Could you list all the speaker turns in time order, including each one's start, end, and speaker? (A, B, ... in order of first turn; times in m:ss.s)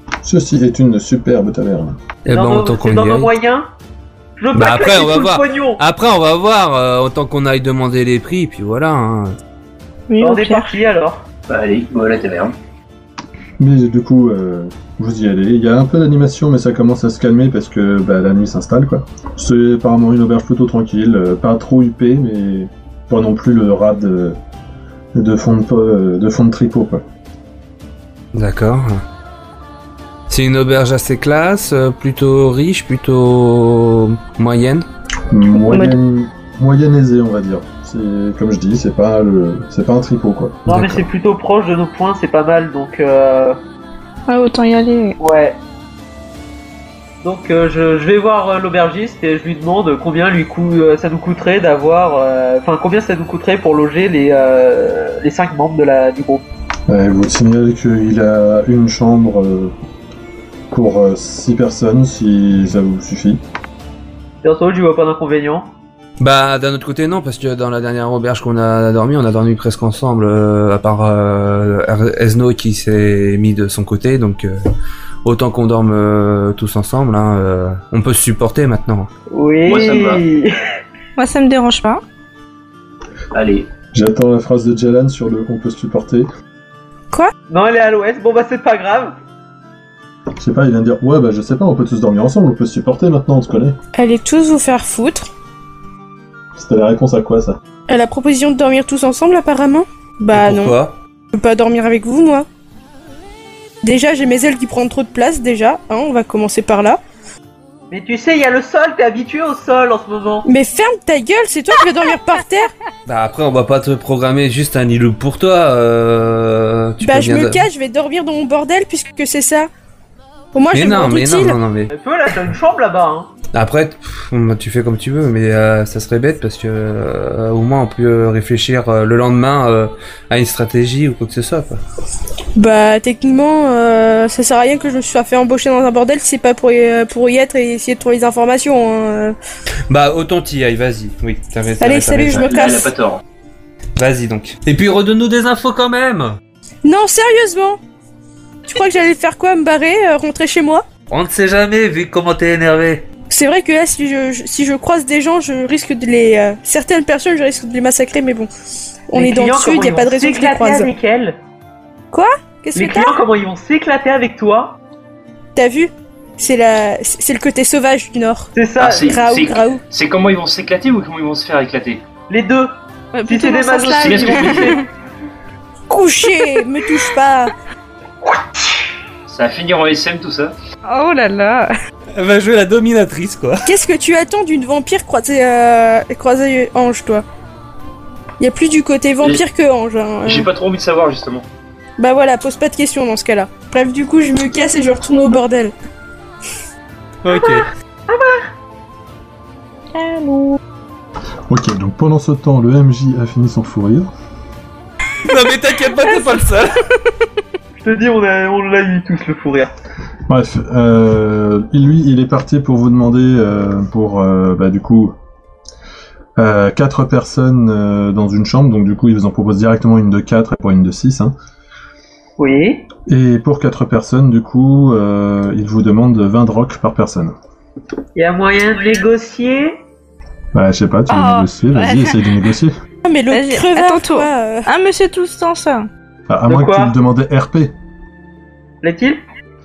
0:00.2-0:02.0 A
0:02.2-0:03.3 B
0:02.2-0:03.7 C
0:04.4-0:05.8 C
0:04.5-0:09.4 B
0:10.1-0:10.8 D
0:10.2-0:11.2 C
0:11.5-0:12.5 E
0:13.6-0:24.4 A
0:25.1-0:27.0 A
0:28.3-0:29.0 B
0:30.3-0:34.8 B
0:35.3-0:40.7 A
0:35.6-0:35.9 D
0:40.7-0:43.6 C
0:40.7-0:41.0 B
0:44.3-0:45.2 D
0:45.2-0:45.6 C
0:47.2-0:56.4 C
0:56.9-0:59.7 A
1:00.7-1:03.4 A
1:04.4-1:05.7 C
1:06.2-1:14.6 B
1:15.2-1:19.1 B
1:19.3-1:20.5 C
1:19.6-1:20.2 E
1:21.2-1:22.0 D
1:23.3-1:23.7 E
1:23.9-1:26.3 A
1:27.5-1:29.1 C
1:30.4-1:33.8 A
1:33.9-1:35.3 F
1:36.6-1:37.6 A
1:37.9-1:40.8 F
1:40.3-1:41.0 B
1:41.3-1:42.4 F
1:43.8-1:47.0 F
1:47.9-1:50.5 C
1:50.4-1:52.7 F
1:53.1-1:57.6 B
1:57.0-1:59.7 F
2:00.5-2:01.6 F
2:00.7-2:01.9 B
2:01.9-2:03.3 C
2:03.5-2:11.8 B
2:12.6-2:19.4 F
2:19.9-2:22.5 B
2:21.8-2:22.9 F
2:22.3-2:23.2 E
2:24.0-2:26.4 B
2:26.8-2:27.8 F
2:28.7-2:30.8 F
2:31.1-2:33.0 B
2:33.3-2:38.5 F
2:39.1-2:40.9 F
2:39.2-2:41.4 C
2:42.1-2:43.2 F
2:42.7-2:44.8 C
2:45.5-2:48.5 F
2:48.5-2:49.2 C
2:48.8-2:52.0 E
2:49.0-2:49.8 F
2:52.3-2:54.8 C
2:53.1-2:54.8 D
2:54.0-2:54.7 E
2:55.9-2:57.5 F
2:59.3-3:00.5 E
3:00.8-3:01.7 D
3:02.1-3:03.6 B
3:03.6-3:07.2 F
3:08.4-3:10.5 F
3:10.2-3:11.4 E
3:12.0-3:15.7 F
3:17.2-3:17.7 B
3:17.3-3:18.4 C
3:19.9-3:20.6 D
3:21.5-3:24.1 A
3:25.2-3:26.8 B
3:27.8-3:29.7 C
3:30.3-3:35.1 A
3:36.4-3:41.3 A
3:42.4-3:42.9 C
3:43.1-3:47.3 A
3:48.2-3:49.8 C
3:50.5-3:52.7 A
3:51.1-3:52.3 D
3:53.0-3:54.7 F
3:53.3-3:55.9 D
3:56.3-3:57.7 A
3:56.5-3:56.9 C
3:58.8-3:59.2 C